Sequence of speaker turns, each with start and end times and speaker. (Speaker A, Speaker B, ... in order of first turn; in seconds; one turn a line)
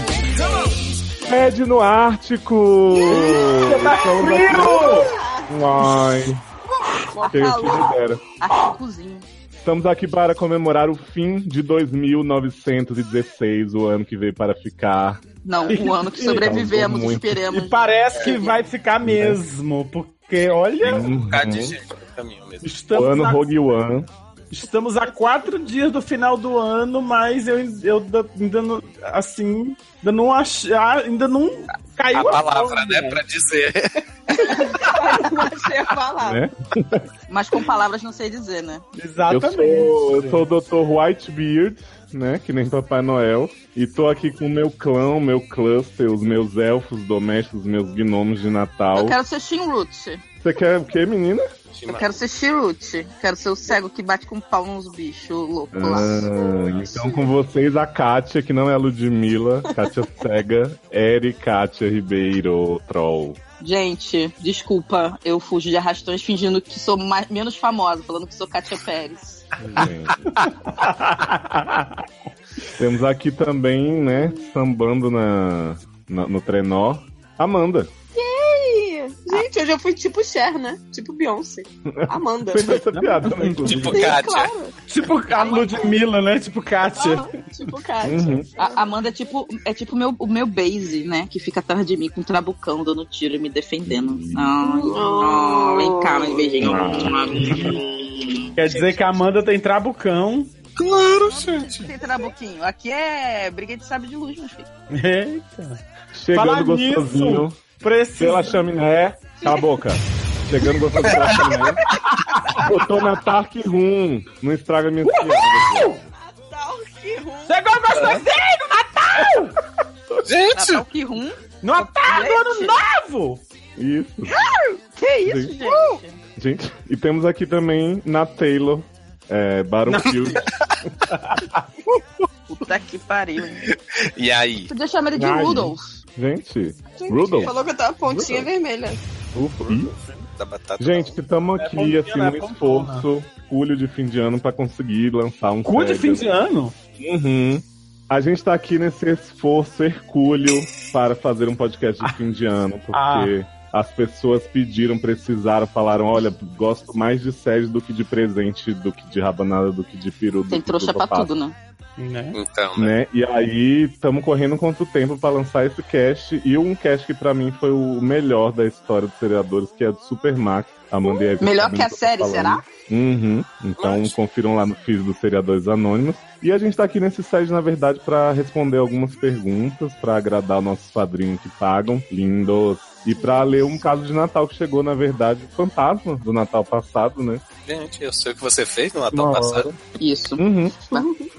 Speaker A: 1.2-6.4
Speaker B: 2.9-3.9
Speaker C: 3.0-5.1
Speaker B: 4.4-5.5
Speaker D: 7.1-9.3
Speaker A: 7.3-8.2
Speaker A: 9.5-15.2
Speaker D: 15.4-18.6
Speaker C: 15.7-16.5
Speaker A: 16.2-17.4
Speaker C: 17.5-21.1
Speaker A: 19.0-19.4
Speaker A: 20.8-21.7
Speaker E: 21.1-22.6
Speaker C: 22.6-23.4
Speaker A: 22.9-24.1
Speaker C: 24.5-33.2
Speaker E: 32.1-34.0
Speaker D: 34.3-35.0
Speaker B: 34.3-36.4
Speaker A: 36.2-37.0
Speaker D: 37.3-38.8
Speaker C: 39.0-40.5
Speaker A: 39.3-49.2
Speaker D: 49.0-50.2
Speaker A: 50.4-51.5
Speaker E: 51.7-52.2
Speaker D: 51.9-56.2
Speaker A: 55.7-63.4
Speaker B: 56.3-57.2
Speaker D: 63.6-69.4
Speaker A: 69.6-70.5
Speaker C: 71.1-71.6
Speaker A: 72.7-77.9
Speaker B: 78.1-82.8
Speaker A: 81.9-84.2
Speaker C: 82.9-83.7
Speaker E: 83.6-84.5
Speaker B: 83.9-84.8
Speaker C: 84.9-87.4
Speaker B: 85.4-86.0
Speaker B: 86.9-88.9
Speaker A: 88.0-88.5
Speaker D: 88.6-98.5
Speaker A: 93.9-94.5
Speaker B: 94.6-96.8
Speaker A: 96.6-97.8
Speaker C: 97.2-97.8
Speaker C: 98.6-100.5
Speaker E: 100.8-101.9
Speaker D: 101.2-104.7
Speaker C: 104.9-105.8
Speaker A: 106.1-107.6
Speaker C: 106.3-108.6
Speaker A: 108.2-111.8
Speaker E: 111.0-111.4
Speaker C: 111.9-112.7
Speaker A: 112.6-116.1
Speaker C: 115.0-116.0
Speaker B: 116.2-117.7
Speaker C: 117.5-119.6
Speaker E: 117.9-118.2
Speaker E: 120.2-120.8
Speaker D: 120.5-122.8
Speaker C: 121.6-123.4
Speaker A: 123.8-124.5
Speaker D: 124.4-126.2
Speaker A: 125.2-125.6
Speaker B: 125.5-126.0
Speaker A: 126.4-130.9
Speaker C: 129.9-130.2
Speaker D: 132.5-133.7
Speaker E: 133.7-134.7
Speaker D: 134.7-135.8
Speaker A: 135.2-137.5
Speaker B: 137.0-139.0
Speaker A: 138.1-138.5
Speaker A: 139.3-139.9
Speaker C: 139.7-140.2
Speaker E: 140.4-141.2
Speaker A: 140.8-146.3
Speaker C: 141.6-143.1
Speaker C: 145.6-146.7
Speaker A: 147.0-161.3
Speaker C: 152.9-153.3
Speaker D: 160.5-161.5
Speaker C: 162.0-162.4
Speaker E: 162.3-162.9
Speaker A: 162.8-187.4
Speaker D: 171.4-172.6
Speaker E: 173.8-174.2
Speaker B: 183.2-183.6
Speaker E: 187.7-189.7
Speaker A: 189.1-189.8
Speaker D: 190.0-191.1
Speaker A: 190.4-190.8
Speaker B: 190.9-191.3